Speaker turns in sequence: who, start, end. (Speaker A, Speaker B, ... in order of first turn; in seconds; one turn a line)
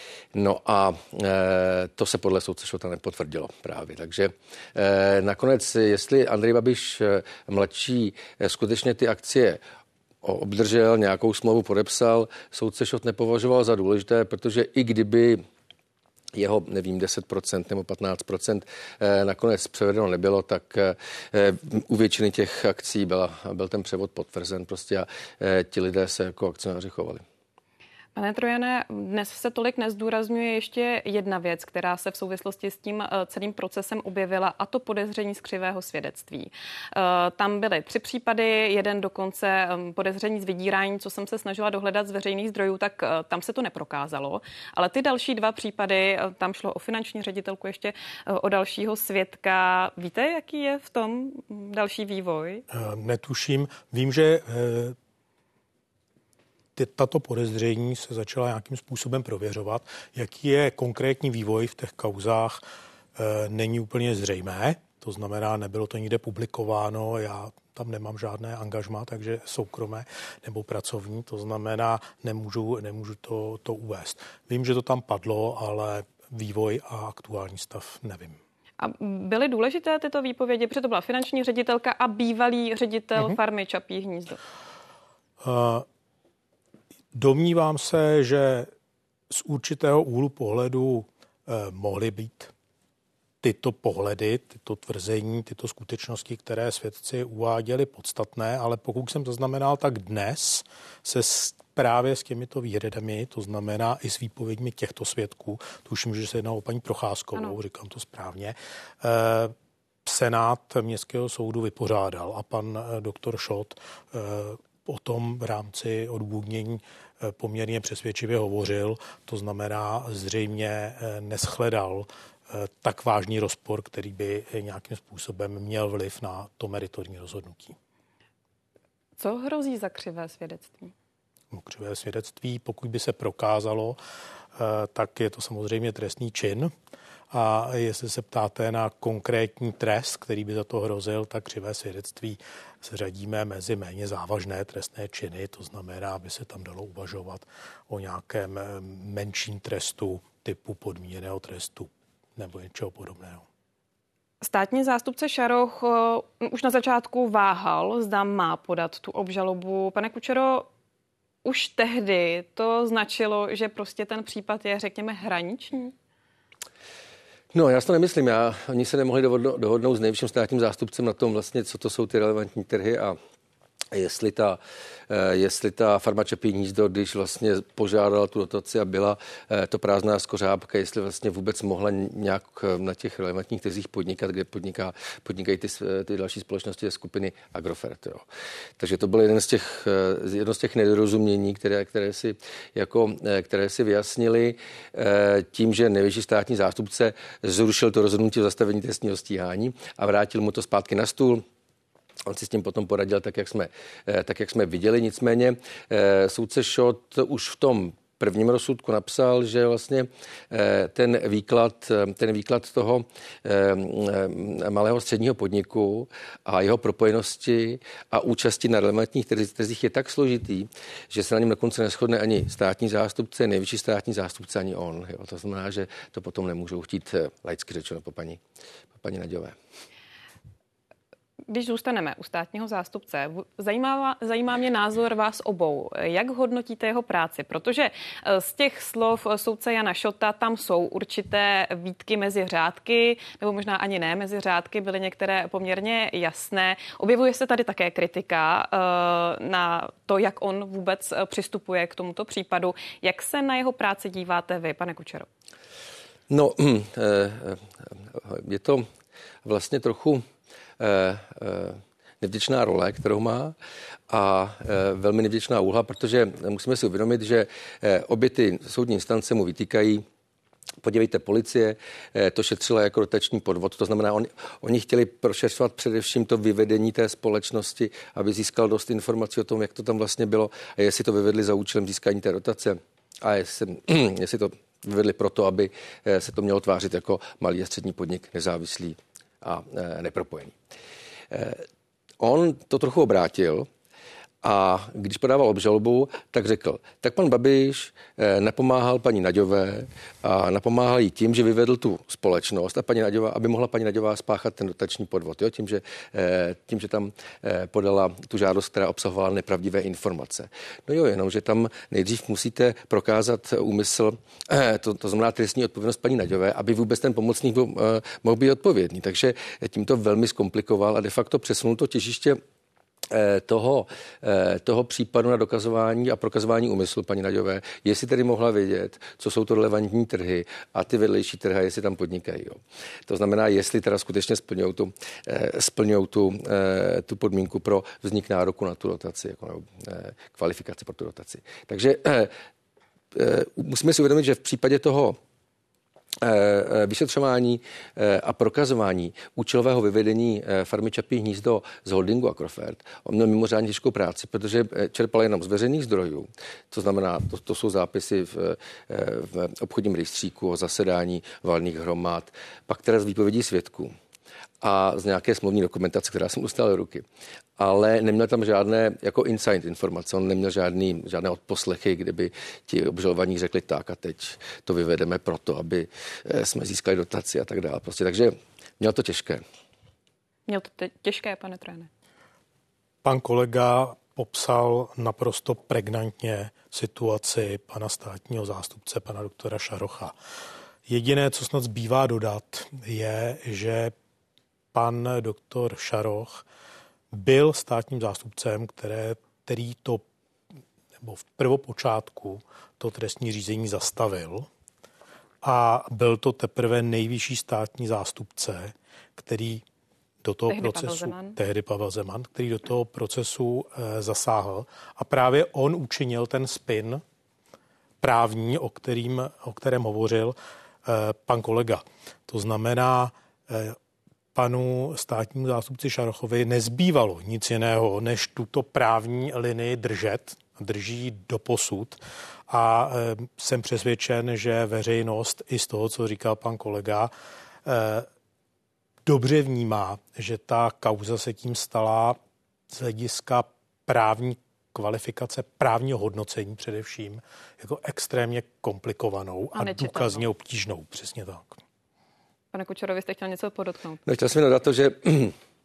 Speaker A: 0.3-9.6
Speaker A: 10.2-15.4
Speaker A: 16.4-27.2
Speaker B: 28.1-52.6
Speaker C: 52.7-55.0
Speaker C: 56.8-62.6
Speaker C: 63.1-78.4
Speaker B: 78.8-84.4
Speaker C: 85.4-85.8
Speaker C: 87.1-88.7
Speaker C: 89.3-92.5
Speaker C: 93.4-109.5
Speaker C: 110.0-127.7
Speaker B: 129.2-130.9
Speaker C: 131.5-134.0
Speaker C: 134.6-136.7
Speaker C: 137.3-153.4
Speaker B: 154.4-160.7
Speaker B: 161.4-165.9
Speaker A: 167.5-173.2
Speaker A: 173.9-188.3
Speaker A: 188.8-201.4
Speaker A: 202.2-228.4
Speaker A: 229.0-229.6
Speaker B: 231.5-255.3
Speaker A: 256.3-258.9
Speaker A: 259.4-260.2
Speaker A: 260.8-263.6
Speaker A: 264.1-270.0
Speaker A: 270.8-290.6
Speaker A: 291.3-291.6
Speaker A: 292.2-293.7
Speaker A: 294.4-322.4
Speaker A: 323.1-342.3
Speaker A: 343.1-345.2
Speaker A: 346.2-363.9
Speaker A: 364.6-367.0
Speaker A: 367.6-379.4
Speaker B: 380.5-381.9
Speaker C: 383.0-390.1
Speaker C: 390.9-393.9
Speaker C: 394.7-396.4
Speaker C: 397.1-400.0
Speaker C: 401.0-404.5
Speaker C: 405.4-409.6
Speaker C: 410.2-417.0
Speaker B: 410.5-411.4
Speaker C: 418.0-423.8
Speaker C: 424.4-437.1
Speaker C: 437.6-438.1
Speaker C: 439.1-442.2
Speaker C: 442.7-451.6
Speaker B: 449.5-450.2
Speaker B: 452.5-454.0
Speaker A: 454.1-455.4